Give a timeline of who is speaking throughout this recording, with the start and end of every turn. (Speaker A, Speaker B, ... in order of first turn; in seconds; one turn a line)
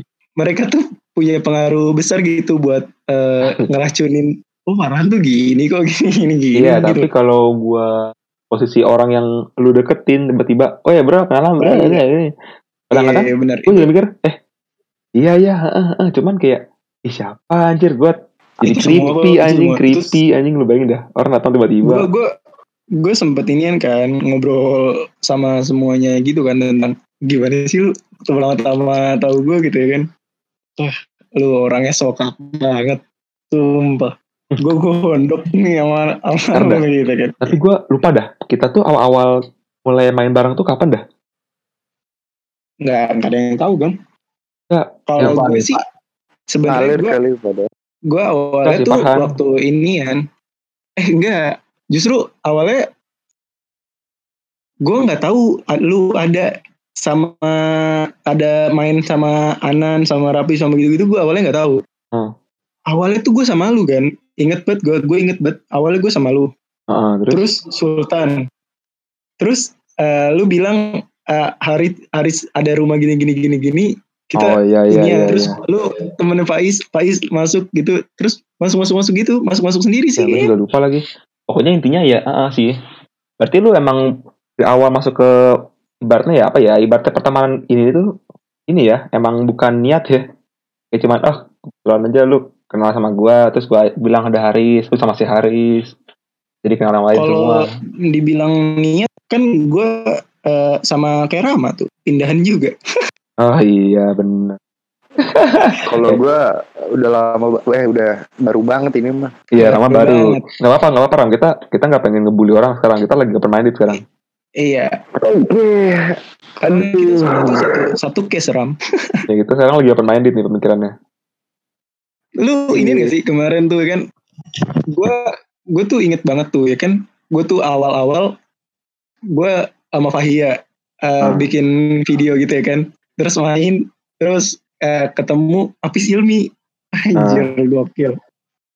Speaker A: 0.4-7.1
Speaker B: 6.6-7.9
Speaker B: 8.5-12.3
Speaker A: 11.6-12.0
Speaker B: 12.9-14.4
Speaker A: 12.9-13.9
Speaker B: 15.2-22.1
Speaker A: 18.6-20.2
Speaker A: 21.8-22.3
Speaker A: 23.0-30.1
Speaker A: 30.8-33.0
Speaker A: 33.5-37.4
Speaker B: 36.5-36.8
Speaker B: 37.4-39.3
Speaker B: 39.8-41.0
Speaker A: 42.8-44.0
Speaker B: 44.7-45.6
Speaker A: 45.1-45.8
Speaker C: 45.2-45.8
Speaker A: 46.5-47.1
Speaker C: 46.7-47.7
Speaker A: 48.1-50.2
Speaker B: 48.6-49.4
Speaker A: 51.0-52.8
Speaker A: 54.8-56.5
Speaker A: 57.0-61.8
Speaker A: 62.9-66.5
Speaker B: 66.9-67.4
Speaker A: 67.3-68.4
Speaker A: 69.4-80.5
Speaker B: 74.4-75.5
Speaker B: 80.2-82.7
Speaker B: 83.4-84.0
Speaker B: 84.6-85.3
Speaker B: 86.0-88.0
Speaker B: 88.7-90.2
Speaker B: 90.9-95.9
Speaker B: 96.6-97.7
Speaker A: 97.2-97.5
Speaker A: 98.1-99.9
Speaker A: 100.5-102.7
Speaker B: 103.4-104.6
Speaker B: 105.3-106.2
Speaker C: 105.9-106.4
Speaker C: 107.0-109.3
Speaker B: 109.5-114.0
Speaker A: 109.6-110.5
Speaker A: 114.6-114.9
Speaker C: 115.2-117.5
Speaker A: 116.6-118.7
Speaker B: 119.3-120.9
Speaker A: 122.4-124.0
Speaker A: 124.9-128.3
Speaker A: 129.3-130.6
Speaker A: 131.1-136.4
Speaker A: 137.0-138.1
Speaker B: 137.2-137.5